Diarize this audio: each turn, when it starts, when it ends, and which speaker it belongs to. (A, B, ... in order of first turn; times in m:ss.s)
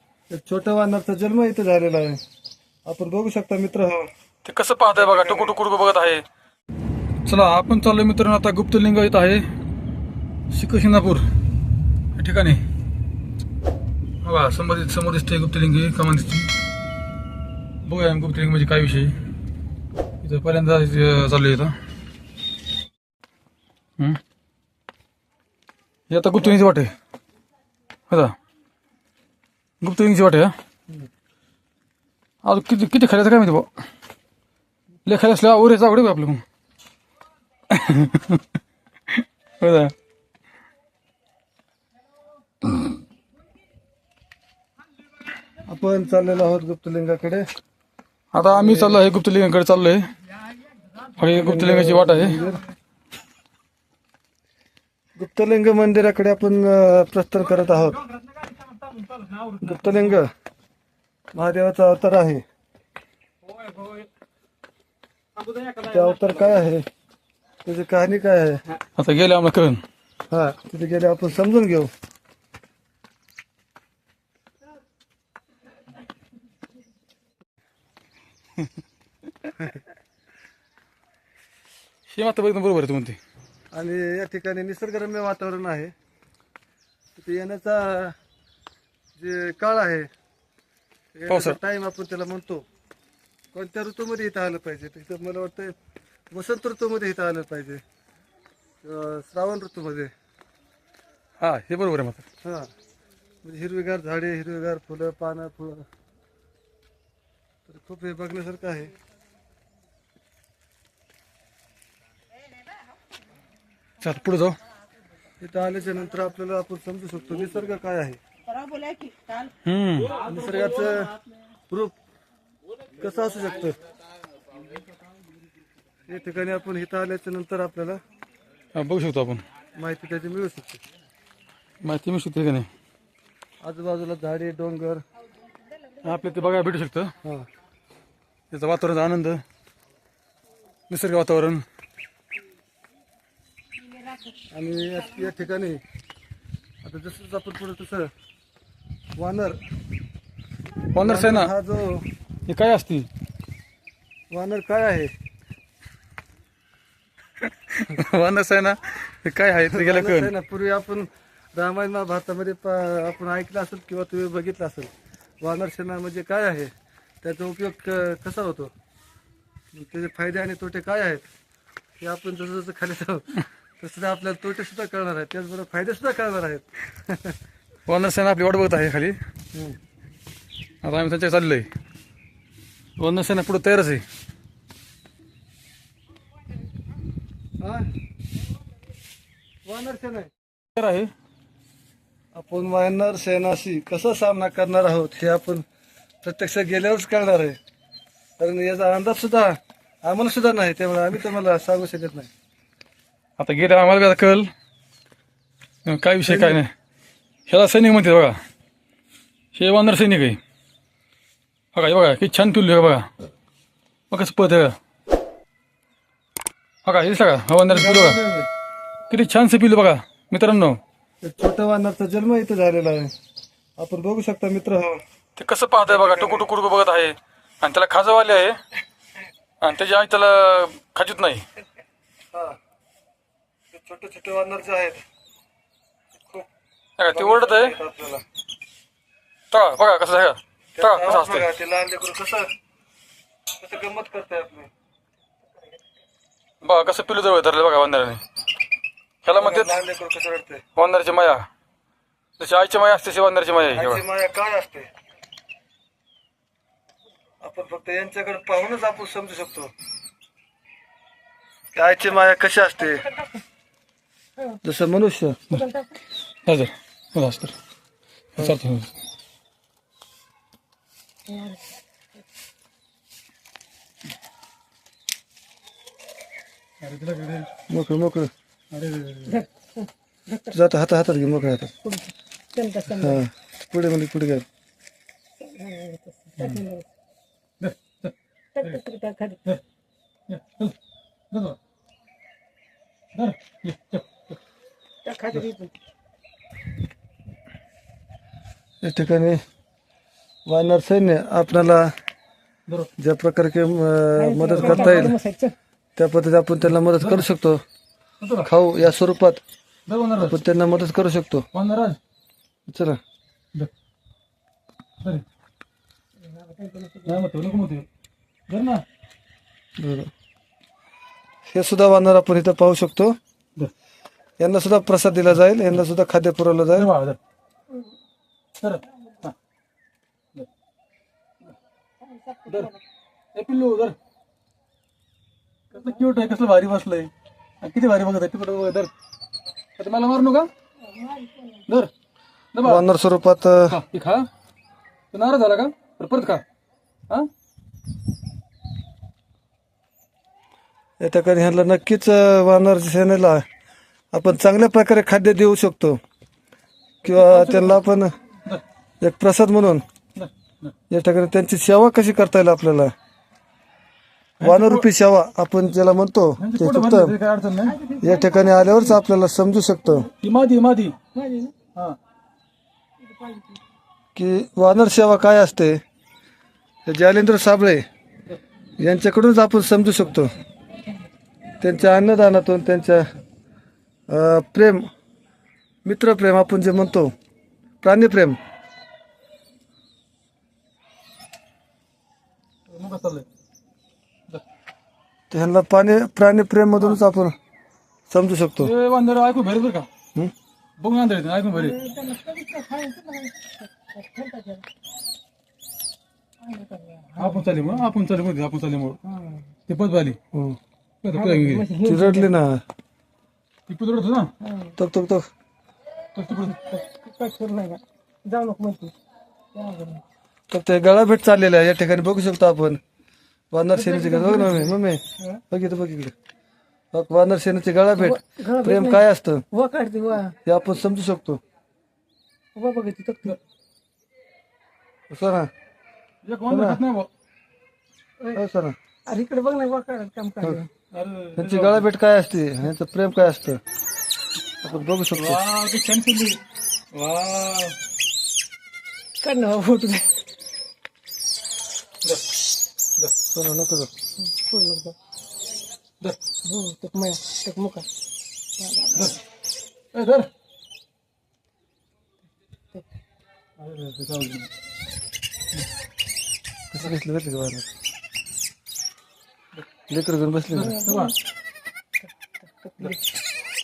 0:00.3-0:02.2 A
0:02.8-0:04.1 A
0:04.4-0:06.2 B
0:05.0-0:05.5 A
0:07.3-0:09.4 B
0:10.5-0:11.3 B
0:12.2-0:12.6 B
0:14.2-0:16.5 B
0:17.8-0:19.2 B
0:20.2-0:21.8 B
0:26.1-0:26.9 B
0:28.1-0:28.4 B
0:29.8-0:30.5 B
0:32.4-0:33.7 B
0:35.0-0:36.4 B
0:37.7-0:38.4 B
0:39.1-0:39.9 B
0:45.7-0:47.4 A
0:48.3-0:50.1 B
0:48.5-0:49.0 A
0:51.1-0:52.5 B
0:51.3-0:52.6 A
0:55.2-0:58.1 A
0:59.0-0:59.5 B
0:59.6-1:00.3 A
1:01.3-1:02.4 A
1:05.6-1:06.9 A
1:07.6-1:08.6 A
1:09.0-1:09.8 B
1:10.3-1:11.9 A
1:22.1-1:23.2 B
1:23.7-1:25.9 A
1:27.2-1:28.2 A
1:29.2-1:30.1 A
1:31.1-1:32.6 A
1:31.3-1:31.6 B
1:33.5-1:35.8 A
1:36.3-1:37.8 A
1:38.8-1:40.1 A
1:41.4-1:42.2 B
1:42.4-1:42.7 A
1:43.4-1:45.8 A
1:47.7-1:48.9 A
1:54.0-1:54.6 B
1:55.4-1:58.2 A
1:59.6-2:00.2 B
2:00.2-2:01.2 A
2:03.0-2:03.8 A
2:06.1-2:08.0 A
2:08.7-2:09.4 B
2:09.8-2:10.8 A
2:11.8-2:12.7 B
2:13.6-2:15.0 A
2:16.0-2:17.1 B
2:18.5-2:19.4 B
2:20.9-2:21.6 B
2:24.5-2:25.8 A
2:26.8-2:28.1 A
2:29.2-2:29.6 A
2:30.9-2:31.5 B
2:31.0-2:32.1 A
2:32.5-2:33.1 B
2:34.3-2:35.1 A
2:37.4-2:40.3 B
2:39.7-2:48.7 A
2:49.7-2:51.3 A
2:52.0-2:57.4 A
2:57.8-2:59.2 B
3:00.8-3:01.7 B
3:03.0-3:04.0 B
3:07.6-3:07.9 A
3:09.6-3:10.3 A
3:10.7-3:11.1 B
3:12.3-3:15.6 A
3:16.2-3:17.6 A
3:18.4-3:22.3 A
3:23.4-3:24.5 B
3:25.8-3:26.7 B
3:26.2-3:26.6 A
3:27.5-3:28.4 B
3:29.5-3:30.4 B
3:31.7-3:33.1 B
3:34.1-3:34.7 B
3:36.8-3:38.2 B
3:37.7-3:38.5 A
3:39.1-3:40.8 B
3:41.2-3:43.1 A
3:43.8-3:45.0 A
3:45.4-3:48.6 B
3:45.8-3:46.5 A
3:49.6-3:51.4 B
3:52.3-3:52.6 A
3:53.7-3:55.0 A
3:57.0-3:57.8 B
3:57.1-3:58.2 A
3:59.5-4:01.5 B
4:00.8-4:02.5 A
4:03.6-4:04.7 A
4:06.6-4:08.2 B
4:09.2-4:09.8 B
4:09.4-4:10.6 A
4:10.8-4:11.4 B
4:12.4-4:14.0 B
4:13.7-4:14.9 A
4:17.4-4:19.7 A
4:21.7-4:23.0 A
4:23.1-4:23.4 C
4:24.6-4:25.4 A
4:25.5-4:25.9 C
4:26.4-4:27.6 B
4:28.4-4:29.0 B
4:31.3-4:31.6 C
4:36.8-4:37.5 B
4:37.7-4:38.3 A
4:38.7-4:39.4 B
4:39.3-4:40.5 C
4:40.5-4:41.7 A
4:41.8-4:43.2 C
4:42.9-4:44.5 A
4:45.4-4:46.9 C
4:47.6-4:48.1 B
4:48.6-4:49.4 C
4:50.3-4:50.8 B
4:51.3-4:51.6 B
4:53.1-4:54.1 B
4:55.0-4:55.7 C
4:58.8-4:59.4 A
5:00.5-5:01.9 A
5:03.0-5:05.1 A
5:04.2-5:05.6 C
5:04.6-5:05.1 B
5:06.0-5:07.6 A
5:08.2-5:08.5 B
5:08.4-5:09.4 A
5:09.9-5:10.4 B
5:10.2-5:11.4 A
5:11.5-5:12.0 B
5:12.7-5:13.0 A
5:16.3-5:17.2 C
5:17.0-5:17.9 B
5:18.5-5:18.8 B
5:19.8-5:20.1 A
5:21.5-5:23.2 A
5:24.4-5:26.9 A
5:26.8-5:27.2 B
5:28.6-5:29.4 B
5:32.0-5:32.8 C
5:33.4-5:34.0 B
5:35.7-5:38.9 B
5:39.8-5:40.5 B
5:40.8-5:41.6 C
5:42.5-5:42.8 B
5:42.6-5:43.8 A
5:43.7-5:44.3 B
5:45.1-5:46.4 B
5:51.0-5:53.4 A
5:54.1-5:56.0 A
5:57.0-5:58.1 A
5:57.0-5:57.8 B
5:59.0-5:59.8 A
6:00.2-6:00.7 B
6:00.9-6:02.9 A
6:04.4-6:04.8 B
6:04.4-6:07.2 A
6:06.4-6:07.8 B
6:07.6-6:08.9 C
6:08.0-6:10.1 A
6:10.2-6:11.0 B
6:11.1-6:11.5 C
6:13.0-6:13.6 C
6:14.2-6:15.8 A
6:16.9-6:17.8 A
6:18.8-6:20.3 A
6:21.6-6:23.0 A
6:24.1-6:24.8 A
6:25.8-6:27.1 A
6:27.8-6:28.4 A
6:32.7-6:33.2 B
6:35.3-6:37.4 A
6:38.1-6:38.7 A
6:38.6-6:39.9 B
6:40.8-6:41.8 B
6:41.5-6:44.6 C
6:46.4-6:47.8 C
6:47.2-6:49.0 B
6:49.0-6:49.5 C
6:49.7-6:50.2 B
6:50.3-6:50.6 A
6:51.0-6:51.7 B
6:51.1-6:52.3 C
6:51.8-6:52.6 A
6:53.7-6:54.3 B
6:54.4-6:54.8 C
6:54.8-6:55.3 A
6:56.2-6:56.6 B
6:56.4-6:58.9 C
6:59.5-7:00.0 C
7:00.5-7:02.8 A
7:03.5-7:05.0 A
7:03.8-7:05.4 C
7:05.5-7:06.1 A
7:06.9-7:09.4 A
7:08.0-7:10.4 C
7:10.4-7:11.4 A
7:12.6-7:13.4 C
7:15.1-7:15.5 A
7:16.2-7:17.1 B
7:16.5-7:16.8 A
7:18.3-7:18.8 A
7:19.1-7:20.7 C
7:20.9-7:21.8 B
7:21.4-7:23.6 A
7:24.6-7:25.4 A
7:25.2-7:26.4 B
7:26.9-7:27.8 B
7:29.2-7:30.2 C
7:33.3-7:33.9 A
7:34.2-7:34.9 C
7:36.4-7:37.9 C
7:38.6-7:39.2 C
7:39.9-7:40.3 B
7:43.6-7:44.5 B
7:46.7-7:47.7 A
7:49.9-7:50.8 A
7:50.5-7:51.1 B
7:50.6-7:51.1 C
7:52.4-7:53.0 C